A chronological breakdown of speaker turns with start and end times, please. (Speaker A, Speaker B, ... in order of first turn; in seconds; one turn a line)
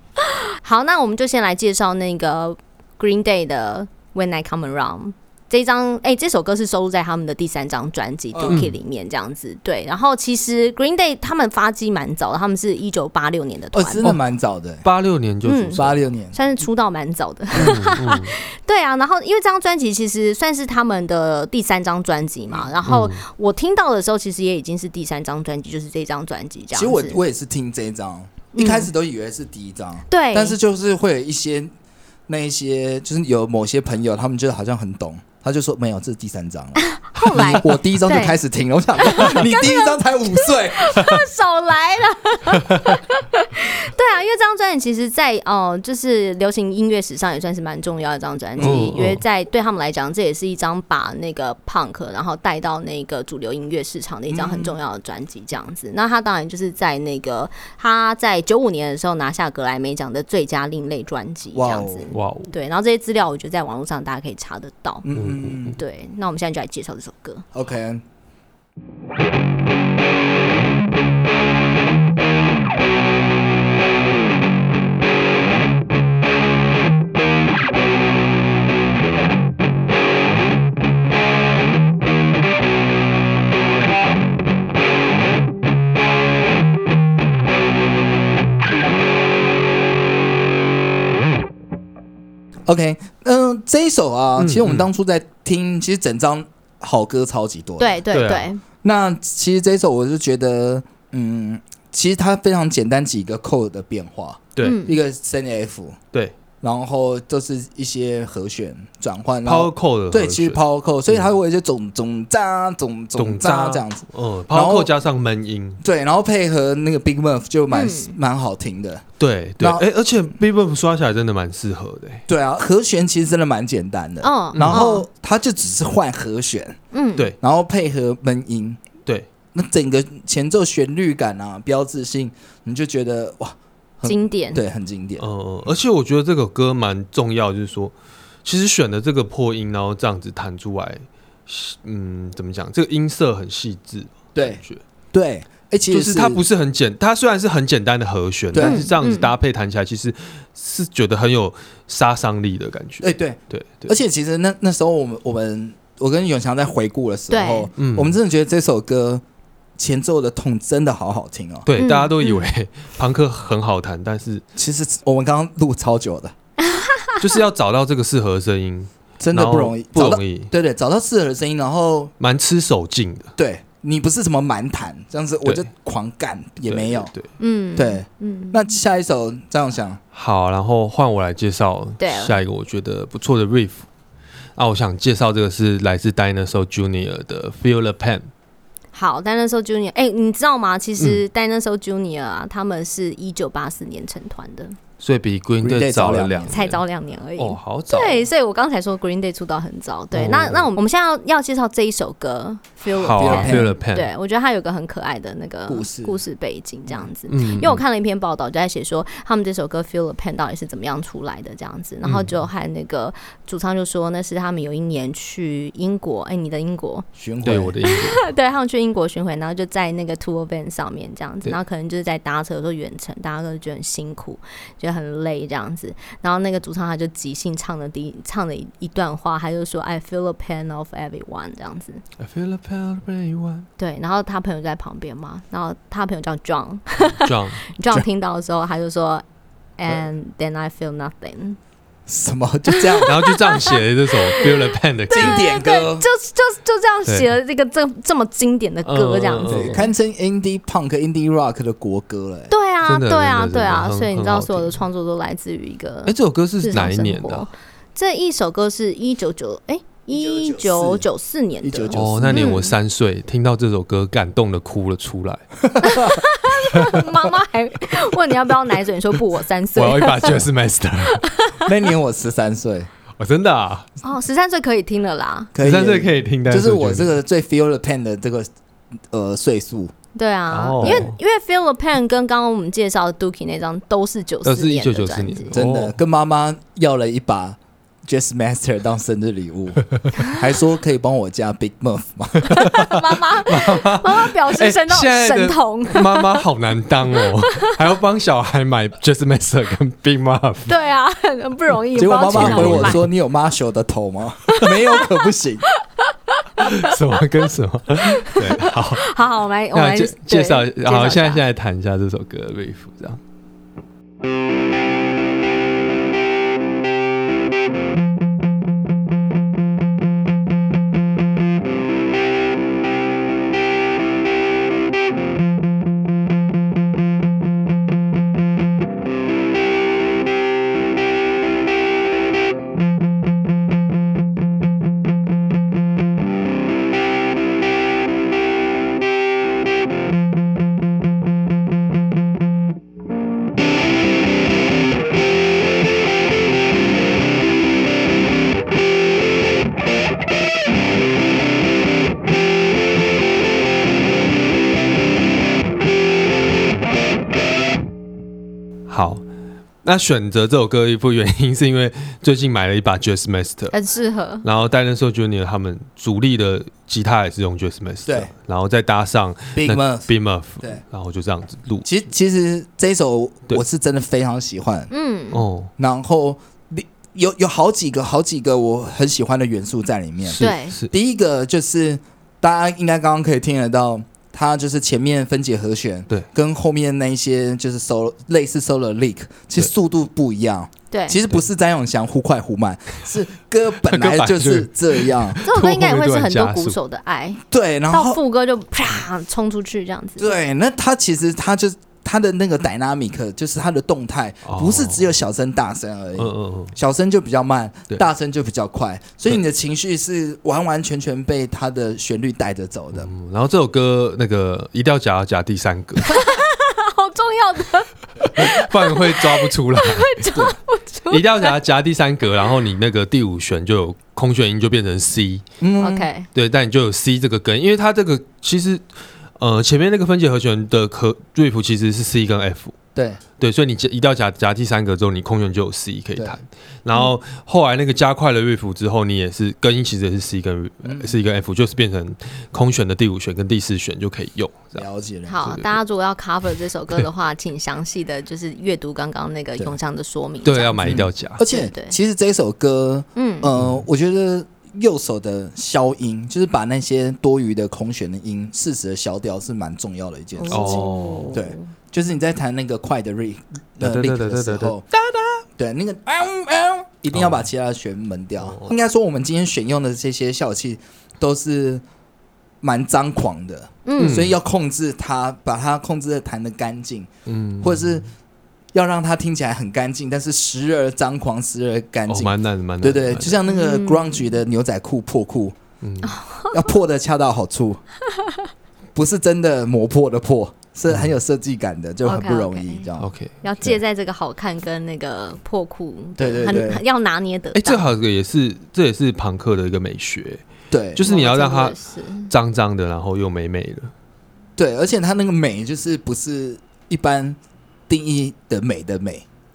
Speaker A: 0.2-14.1
Speaker B: 8.3-8.7
Speaker C: 8.5-8.8
Speaker B: 13.7-14.8
Speaker C: 14.8-16.0
Speaker A: 15.4-27.2
Speaker B: 15.8-16.3
Speaker C: 17.6-18.3
Speaker C: 22.9-23.2
Speaker B: 26.7-31.7
Speaker A: 28.5-28.9
Speaker A: 30.1-30.6
Speaker B: 32.3-41.1
Speaker A: 36.8-38.4
Speaker C: 37.3-37.6
Speaker A: 39.0-65.1
Speaker B: 48.6-49.0
Speaker C: 48.6-49.2
Speaker B: 54.3-54.8
Speaker B: 61.5-62.1
Speaker C: 62.1-62.5
Speaker B: 65.0-65.8
Speaker C: 65.2-65.7
Speaker A: 65.7-67.5
Speaker B: 67.5-68.0
Speaker B: 92.7-98.0
Speaker C: 94.4-94.9
Speaker A: 97.8-98.6
Speaker C: 98.1-98.5
Speaker B: 98.8-106.0
Speaker A: 104.6-105.0
Speaker B: 106.6-114.9
Speaker C: 109.4-111.3
Speaker C: 113.2-115.8
Speaker B: 115.8-119.0
Speaker A: 117.7-118.1
Speaker C: 119.2-122.2
Speaker B: 119.6-119.8
Speaker B: 122.3-126.8
Speaker A: 124.2-125.0
Speaker C: 124.5-124.8
Speaker A: 126.9-127.3
Speaker B: 127.4-128.8
Speaker B: 129.5-135.2
Speaker A: 134.0-134.6
Speaker C: 135.2-137.9
Speaker C: 138.4-144.8
Speaker B: 144.3-146.4
Speaker C: 145.9-153.9
Speaker B: 148.5-148.9
Speaker A: 148.6-149.3
Speaker B: 153.0-159.2
Speaker A: 157.3-157.7
Speaker C: 157.8-158.2
Speaker B: 159.8-161.7
Speaker C: 161.7-164.4
Speaker A: 161.8-162.5
Speaker B: 164.5-166.3
Speaker A: 166.6-167.2
Speaker C: 167.2-170.5
Speaker B: 169.2-172.1
Speaker C: 172.2-173.3
Speaker B: 173.4-177.1
Speaker C: 176.7-177.3
Speaker A: 177.4-178.6
Speaker B: 177.8-180.0
Speaker C: 180.1-183.8
Speaker A: 182.0-182.3
Speaker C: 184.6-188.3
Speaker A: 188.9-194.8
Speaker C: 195.0-196.8
Speaker B: 195.6-196.5
Speaker A: 196.5-217.1
Speaker C: 197.3-198.3
Speaker C: 200.1-200.7
Speaker C: 202.9-204.1
Speaker B: 203.2-203.8
Speaker B: 205.7-206.2
Speaker C: 207.3-207.8
Speaker C: 212.0-212.3
Speaker B: 217.2-217.8
Speaker C: 217.4-218.2
Speaker A: 217.8-232.0
Speaker C: 232.2-233.7
Speaker A: 233.8-239.2
Speaker C: 237.2-237.7
Speaker A: 239.8-241.6
Speaker B: 242.1-243.2
Speaker A: 242.7-249.9
Speaker C: 243.1-245.5
Speaker B: 245.1-246.1
Speaker C: 247.1-247.3
Speaker C: 248.8-249.9
Speaker B: 249.5-252.5
Speaker A: 252.5-262.7
Speaker C: 252.8-254.8
Speaker C: 256.1-257.5
Speaker B: 260.1-261.1
Speaker B: 261.6-262.5
Speaker C: 261.9-265.4
Speaker B: 265.7-266.2
Speaker A: 265.8-270.4
Speaker C: 266.7-267.0
Speaker C: 269.8-271.3
Speaker A: 271.1-271.7
Speaker B: 271.6-272.9
Speaker C: 273.2-273.9
Speaker A: 274.0-275.5
Speaker B: 275.5-278.5
Speaker C: 275.6-277.1
Speaker B: 279.1-279.9
Speaker A: 280.1-285.6
Speaker C: 280.5-281.1
Speaker B: 280.8-281.1
Speaker C: 284.4-286.0
Speaker B: 285.5-293.0
Speaker C: 292.4-300.7
Speaker A: 292.5-296.4
Speaker A: 297.1-297.8
Speaker A: 300.7-303.0
Speaker B: 301.9-305.6
Speaker C: 302.3-303.1
Speaker A: 304.5-307.0
Speaker C: 306.6-309.1
Speaker A: 308.1-311.4
Speaker C: 309.7-313.2
Speaker C: 358.9-359.2
Speaker C: 359.8-363.7
Speaker A: 363.7-364.4
Speaker C: 364.4-371.9
Speaker B: 368.1-368.3
Speaker B: 369.6-370.1
Speaker B: 371.8-374.9
Speaker A: 374.9-375.4
Speaker C: 375.3-375.7
Speaker B: 375.8-395.4
Speaker C: 380.2-380.9
Speaker A: 380.4-380.8
Speaker A: 390.9-391.2
Speaker C: 393.8-396.8
Speaker A: 395.4-400.3
Speaker B: 397.5-398.2
Speaker B: 400.2-413.1
Speaker C: 404.4-405.1
Speaker C: 406.1-406.8
Speaker C: 412.9-416.2
Speaker A: 416.1-421.6
Speaker C: 418.3-420.3
Speaker C: 421.1-425.4
Speaker B: 425.6-426.1
Speaker A: 425.8-426.3
Speaker C: 426.3-428.8
Speaker C: 429.4-432.7
Speaker B: 432.9-433.2
Speaker C: 433.4-444.9
Speaker B: 440.8-441.2
Speaker B: 444.7-445.5
Speaker A: 445.3-452.0
Speaker C: 445.4-445.7
Speaker C: 450.4-451.4
Speaker B: 450.8-464.8
Speaker A: 453.1-453.5
Speaker C: 453.6-453.8
Speaker A: 460.4-461.7
Speaker C: 460.5-461.3
Speaker C: 463.8-465.4
Speaker B: 465.6-471.8
Speaker C: 467.1-467.4
Speaker C: 468.4-468.7
Speaker B: 472.6-477.1
Speaker A: 473.8-474.2
Speaker C: 474.0-474.4
Speaker C: 477.2-478.0
Speaker B: 477.6-478.0
Speaker B: 478.7-485.6
Speaker C: 482.1-483.4
Speaker A: 483.5-484.3
Speaker C: 485.8-486.1
Speaker A: 486.0-486.6
Speaker B: 486.5-487.8
Speaker A: 488.1-488.4
Speaker B: 488.9-493.1
Speaker A: 492.0-492.9
Speaker C: 493.0-493.7
Speaker A: 493.4-497.8
Speaker B: 496.2-496.8
Speaker C: 497.5-500.4
Speaker B: 500.7-501.0
Speaker C: 500.9-503.9
Speaker A: 501.0-502.3
Speaker B: 504.6-507.4
Speaker B: 507.9-509.2